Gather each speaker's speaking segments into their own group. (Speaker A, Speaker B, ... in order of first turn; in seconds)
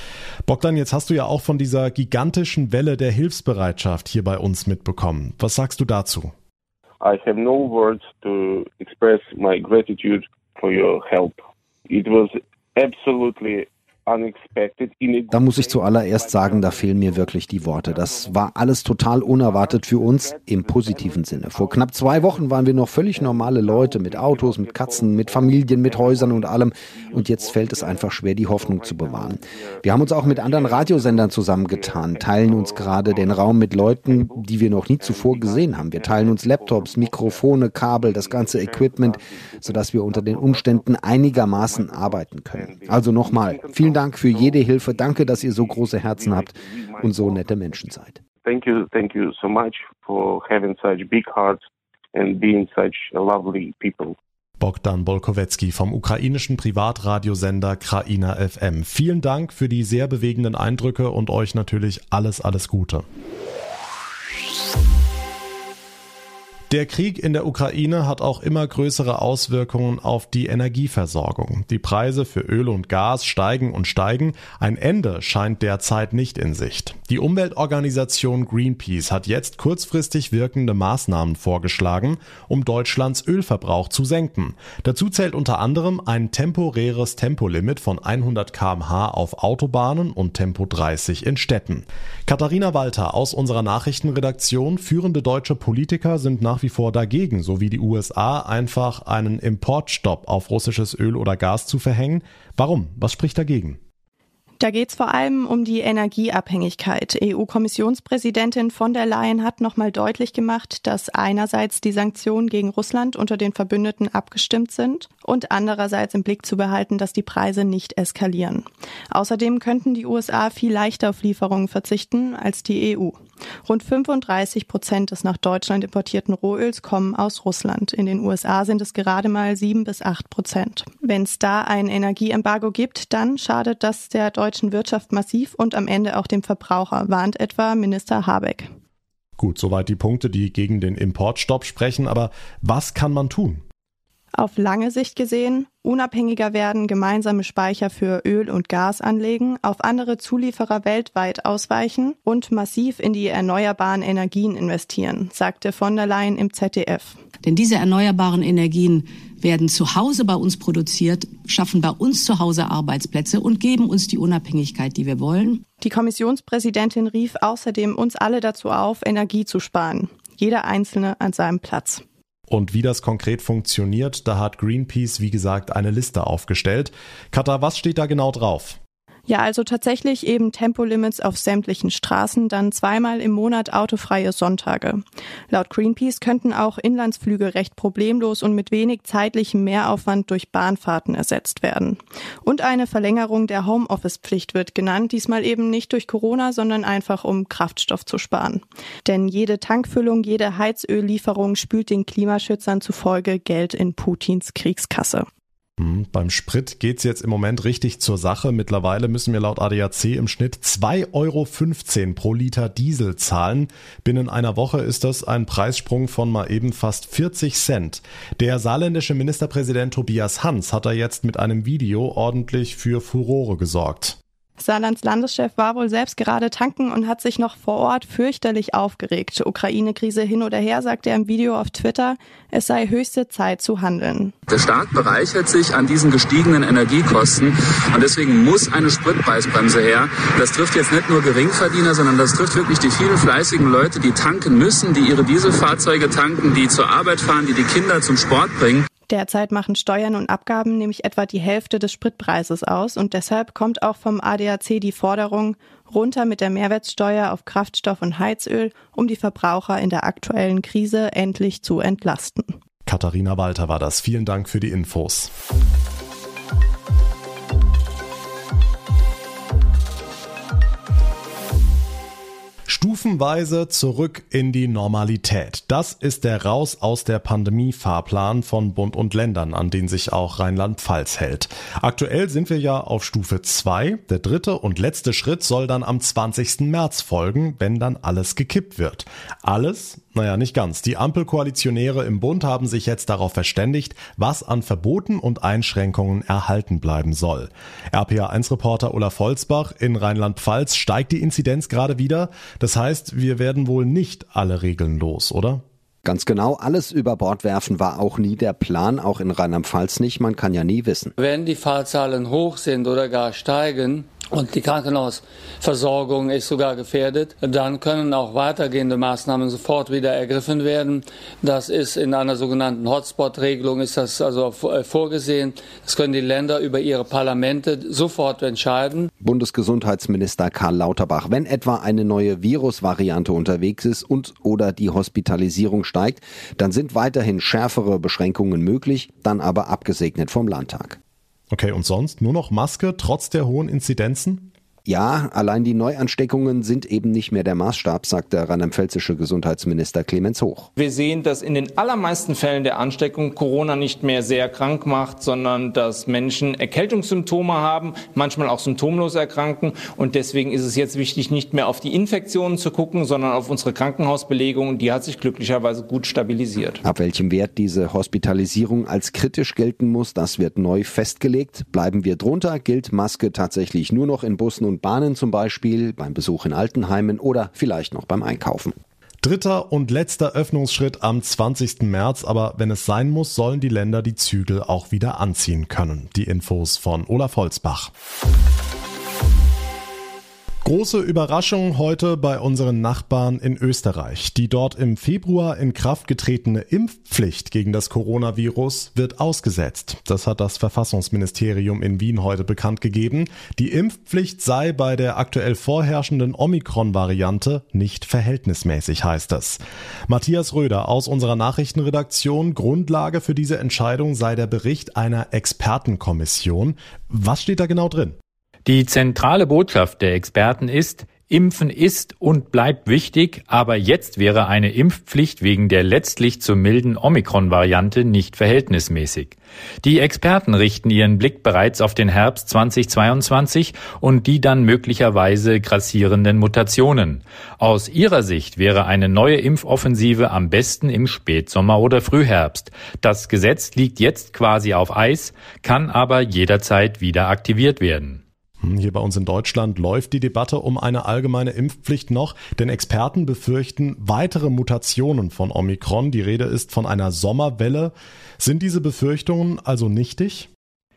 Speaker A: 0.5-6.3, 54.6-63.0, 66.7-103.8, 139.4-143.6, 172.5-178.8, 205.8-224.2, 262.9-265.3, 272.7-305.6, 341.5-344.5, 379.2-387.9, 390.6-418.1, 448.6-460.5
Speaker B: 7.0-18.7, 19.2-54.1
Speaker C: 15.3-48.2, 306.0-311.1, 329.2-341.0, 344.8-350.7, 366.8-378.7
Speaker D: 104.6-138.7, 144.3-157.2, 165.8-172.0, 179.3-205.2, 224.6-234.3, 249.1-262.5
Speaker E: 157.4-165.6
Speaker F: 234.5-248.8
Speaker G: 311.2-329.1
Speaker H: 350.8-366.8
Speaker I: 418.9-419.4, 420.3-420.7, 421.5-421.8, 423.4-424.8, 425.3-429.0, 429.9-433.7, 434.2-436.9, 437.9-442.2, 443.4-447.9